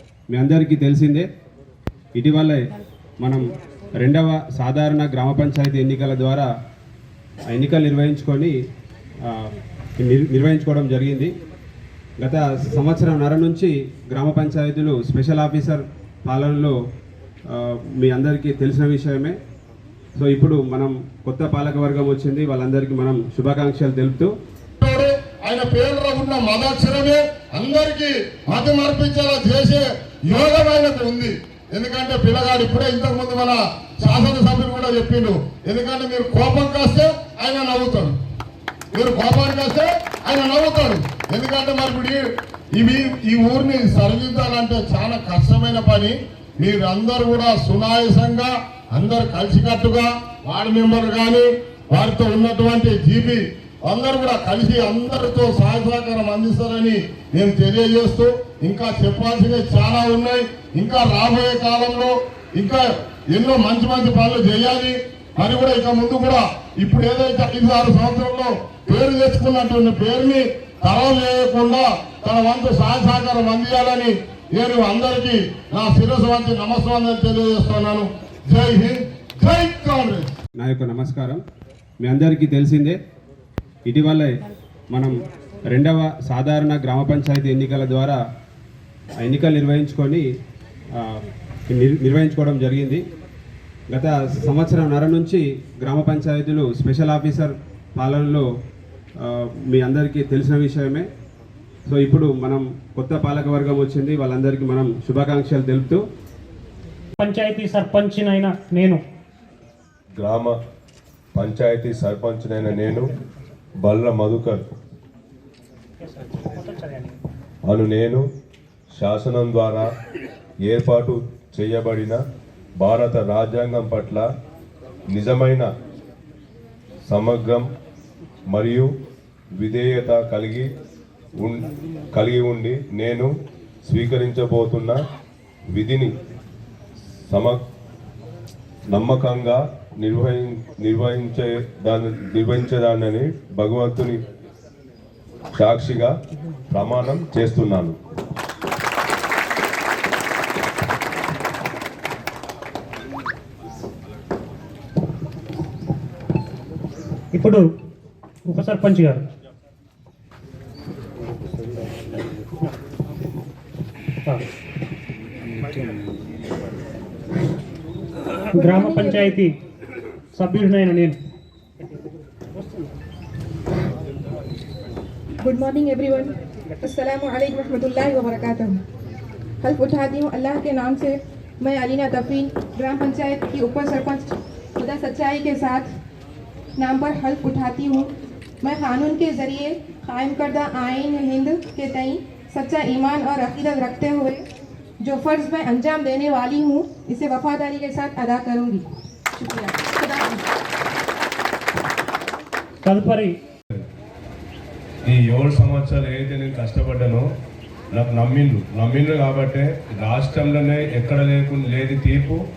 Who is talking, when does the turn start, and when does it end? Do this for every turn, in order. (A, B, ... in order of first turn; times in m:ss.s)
0:00.3-0:01.3 A
0:02.1-0:02.6 A
0:04.0-0:06.5 A
0:07.5-0:08.5 A
0:10.0-0:11.3 A
0:12.2-0:16.7 A
0:17.5-0:19.4 A
0:20.2-0:24.3 A
0:24.8-0:38.2 B
0:38.9-1:20.3 B
1:20.6-1:21.4 A
1:22.0-1:23.0 A
1:23.8-1:24.3 A
1:25.7-1:28.2 A
1:29.2-1:30.2 A
1:31.0-1:33.0 A
1:33.9-1:38.4 A
1:39.2-1:41.1 A
1:41.9-1:46.0 A
1:47.2-1:49.0 C
1:50.2-1:50.6 D
1:51.3-1:53.0 D
1:53.8-1:54.6 D
1:56.2-1:57.1 C
1:57.7-1:58.2 D
1:59.0-1:59.9 D
2:00.6-2:02.2 D
2:02.8-2:04.3 D
2:05.1-2:05.7 D
2:07.1-2:07.6 D
2:08.5-2:08.9 D
2:09.6-2:10.7 D
2:11.4-2:13.3 D
2:13.9-2:15.0 D
2:15.7-2:16.1 D
2:17.3-2:17.6 D
2:18.9-2:24.2 D
2:25.6-2:26.1 D
2:26.7-2:27.9 D
2:37.3-2:37.6 C
2:38.5-2:39.2 C
2:48.5-2:49.5 C
2:48.5-2:49.4 E
2:50.4-2:51.2 C
2:55.4-2:58.8 E
2:59.6-3:05.9 E
3:06.8-3:08.1 E
3:08.6-3:14.4 E
3:15.0-3:20.4 E
3:22.8-3:23.3 C
3:25.0-3:27.2 D
3:27.9-3:32.4 D